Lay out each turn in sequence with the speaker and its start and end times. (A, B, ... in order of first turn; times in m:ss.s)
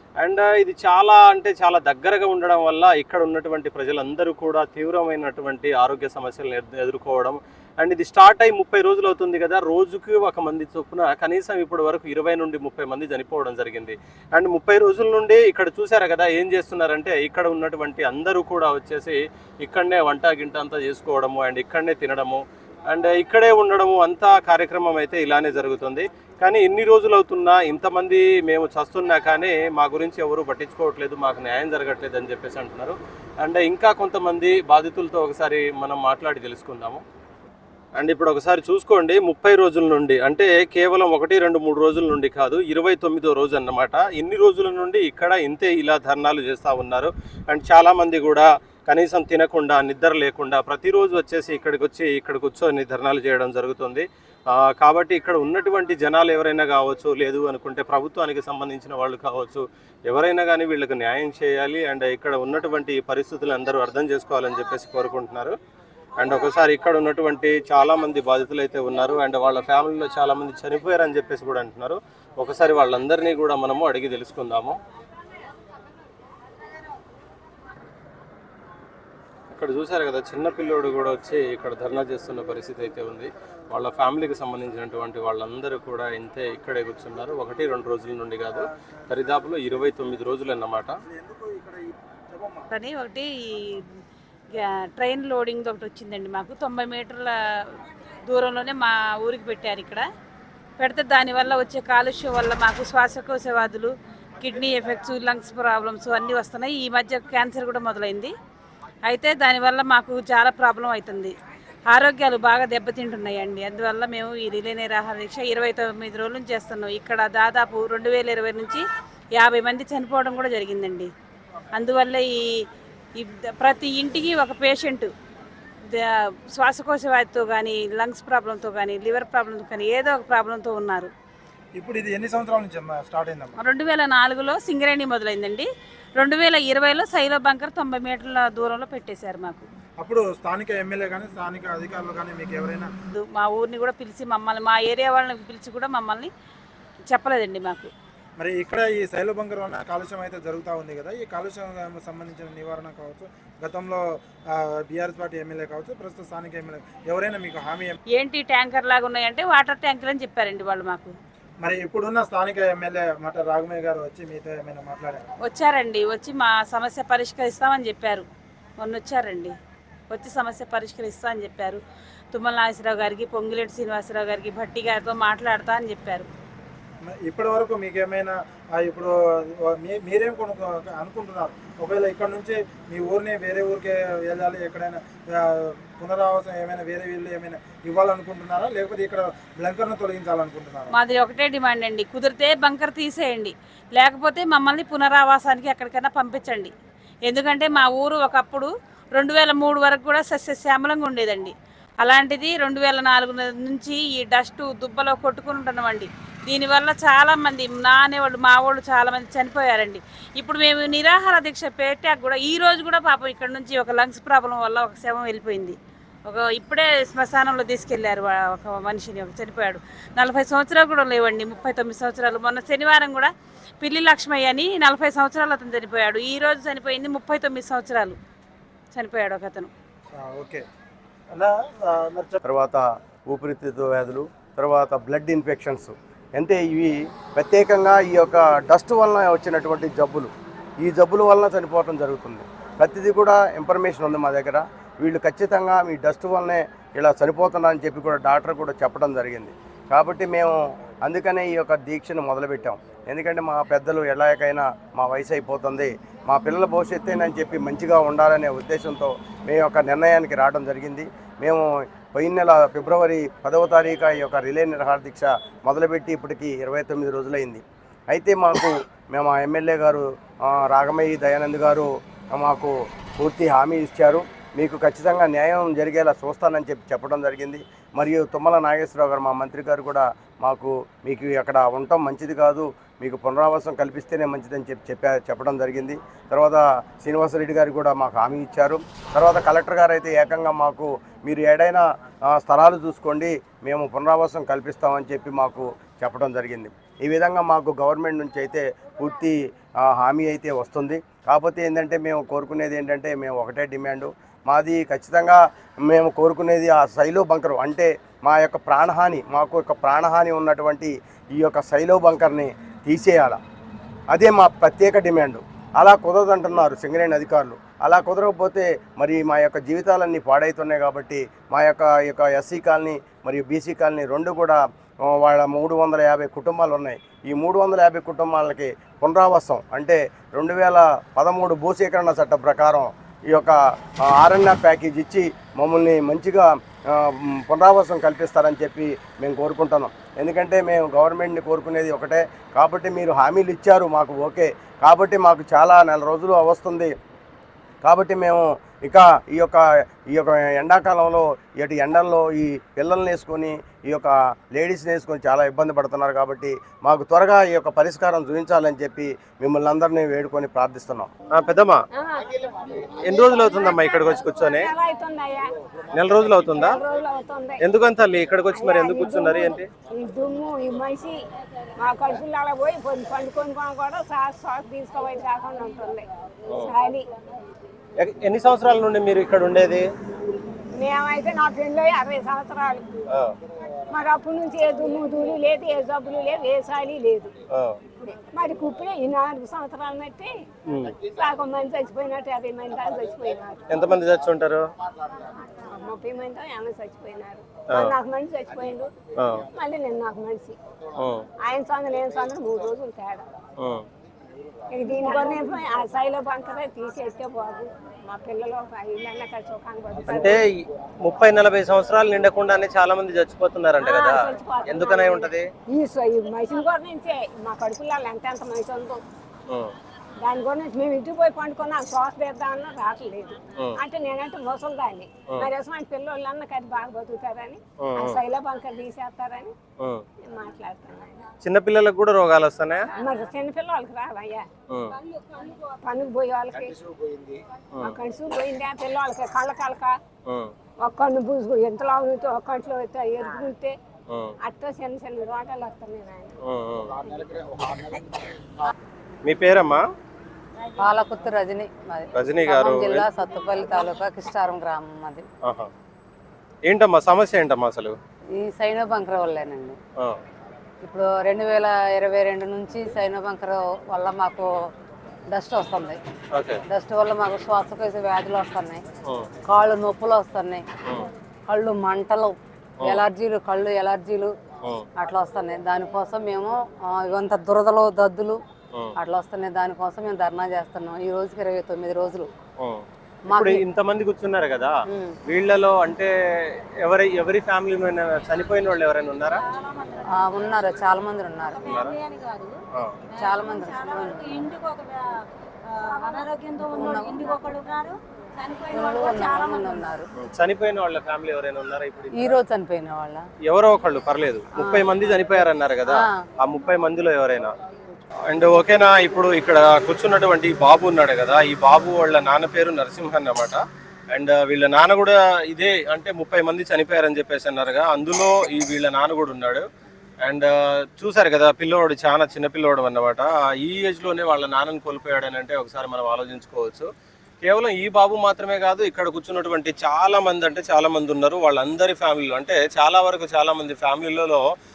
0:00.2-0:37.0 A
0:38.0-1:05.6 A
1:06.2-1:14.8 A
1:19.5-1:30.9 A
1:31.1-1:32.7 B
1:32.7-1:33.8 C
1:34.5-1:40.0 C
1:40.8-1:48.3 C
1:49.1-1:51.3 C
1:51.9-1:58.8 C
1:59.4-2:01.1 C
2:01.8-2:02.3 C
2:03.2-2:05.1 C
2:05.9-2:11.1 C
2:11.8-2:13.6 B
2:13.6-2:19.7 C
2:20.0-2:22.9 B
2:23.1-2:26.3 C
2:27.1-2:27.9 C
2:28.4-2:38.0 B
2:38.2-2:41.1 C
2:41.6-2:45.2 B
2:45.4-2:48.2 C
2:48.8-2:49.5 C
2:50.1-2:51.8 C
2:52.3-2:56.3 C
2:57.0-3:10.9 B
3:11.0-3:16.7 C
3:17.2-3:43.3 C
3:43.8-3:48.2 C
3:48.9-3:49.7 C
3:50.2-3:50.6 B
3:51.3-3:52.4 B
3:52.4-4:00.3 D
4:00.8-5:13.4 D
5:14.1-5:46.9 D
5:47.8-6:01.1 D
6:01.3-6:01.8 A
6:01.9-6:05.5 E
6:02.8-6:04.7 A
6:05.9-6:06.8 A
6:06.4-6:07.6 E
6:07.6-6:09.7 A
6:08.5-6:11.2 E
6:11.8-6:16.1 E
6:16.6-6:17.1 E
6:18.0-6:19.9 A
6:20.7-6:22.9 E
6:23.9-6:27.3 E
6:27.5-6:27.8 A
6:27.9-6:30.4 E
6:30.7-6:31.0 A
6:31.0-6:33.8 E
6:33.7-6:34.6 A
6:35.6-6:38.9 E
6:37.7-6:37.9 A
6:39.2-6:39.4 A
6:39.5-6:40.6 E
6:41.0-6:41.2 A
6:41.4-6:43.3 E
6:44.7-6:50.4 E
6:50.0-6:50.4 A
6:51.0-6:55.5 A
6:53.8-6:59.0 E
7:00.2-7:09.6 E
7:07.8-7:08.2 A
7:10.2-7:11.3 E
7:11.4-7:12.8 A
7:13.0-7:14.5 E
7:14.7-7:14.9 A
7:15.3-7:16.8 E
7:17.8-7:20.0 E
7:20.8-7:23.8 E
7:24.1-7:24.3 A
7:24.4-7:26.3 E
7:26.4-7:27.0 A
7:27.1-7:27.6 E
7:29.2-7:29.8 A
7:30.8-7:35.2 F
7:32.1-7:33.1 A
7:35.4-7:35.7 A
7:36.7-7:37.9 A
7:38.4-7:39.8 F
7:40.8-7:44.5 F
7:45.3-7:46.0 F
7:46.3-7:46.6 A
7:46.7-7:48.8 F
7:49.5-7:50.6 F
7:51.5-7:54.3 F
7:55.0-7:58.4 F
7:59.0-8:02.3 F
8:02.6-8:04.7 A
8:03.3-8:03.6 F
8:04.9-8:05.2 F
8:05.3-8:06.1 A
8:06.8-8:09.4 A
8:09.4-8:12.5 G
8:10.1-8:11.6 F
8:11.6-8:11.9 A
8:13.1-8:20.0 G
8:13.2-8:14.4 F
8:16.7-8:17.2 F
8:18.7-8:20.0 F
8:20.2-8:22.4 A
8:22.1-8:23.2 F
8:23.4-8:27.5 A
8:24.5-8:24.8 F
8:28.3-8:39.6 A
8:40.2-8:46.9 A
8:47.4-8:54.4 A